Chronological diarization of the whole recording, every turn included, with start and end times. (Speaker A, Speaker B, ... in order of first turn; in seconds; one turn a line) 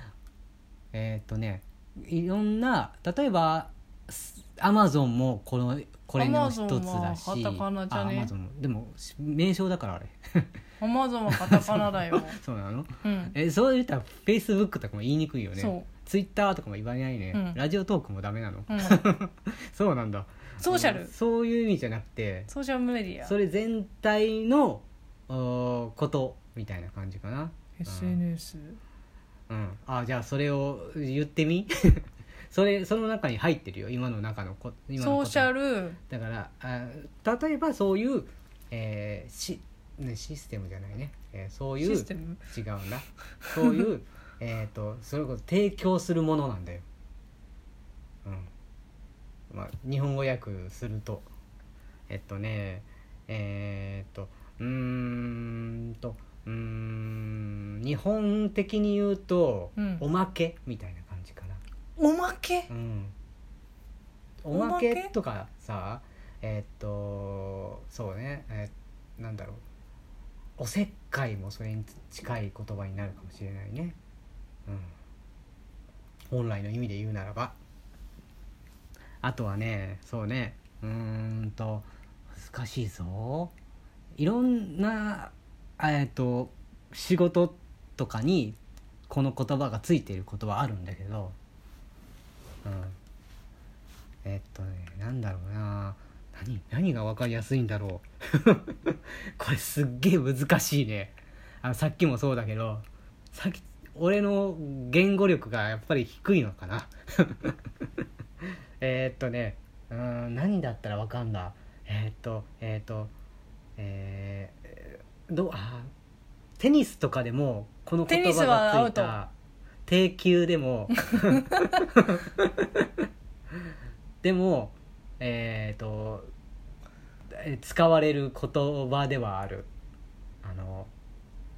Speaker A: 0.9-10.5
Speaker B: 6.2-8.3
Speaker B: 10.8-12.4
Speaker A: 11.3-22.5
Speaker B: 13.0-13.3
Speaker B: 15.6-15.9
Speaker B: 17.3-17.6
Speaker B: 18.7-19.1
Speaker B: 20.6-21.1
Speaker B: 22.5-23.3
Speaker A: 23.2-28.2
Speaker B: 27.8-28.8
Speaker A: 29.5-35.5
Speaker B: 35.0-36.0
Speaker A: 36.1-46.9
Speaker B: 41.8-42.4
Speaker A: 48.2-48.5
Speaker A: 49.5-51.3
Speaker A: 52.1-61.6
Speaker B: 59.8-60.0
Speaker B: 62.0-62.7
Speaker A: 62.7-63.1
Speaker A: 64.4-69.6
Speaker B: 64.5-65.1
Speaker A: 70.6-74.0
Speaker A: 74.7-74.9
Speaker A: 76.3-77.5
Speaker A: 79.2-83.5
Speaker A: 84.2-88.6
Speaker A: 89.1-91.3
Speaker A: 92.6-93.0
Speaker A: 94.2-107.6
Speaker A: 108.8-113.1
Speaker A: 113.8-115.9
Speaker A: 116.6-119.3
Speaker B: 118.1-119.2
Speaker A: 119.9-122.8
Speaker A: 124.2-126.3
Speaker A: 127.3-129.7
Speaker A: 130.4-130.9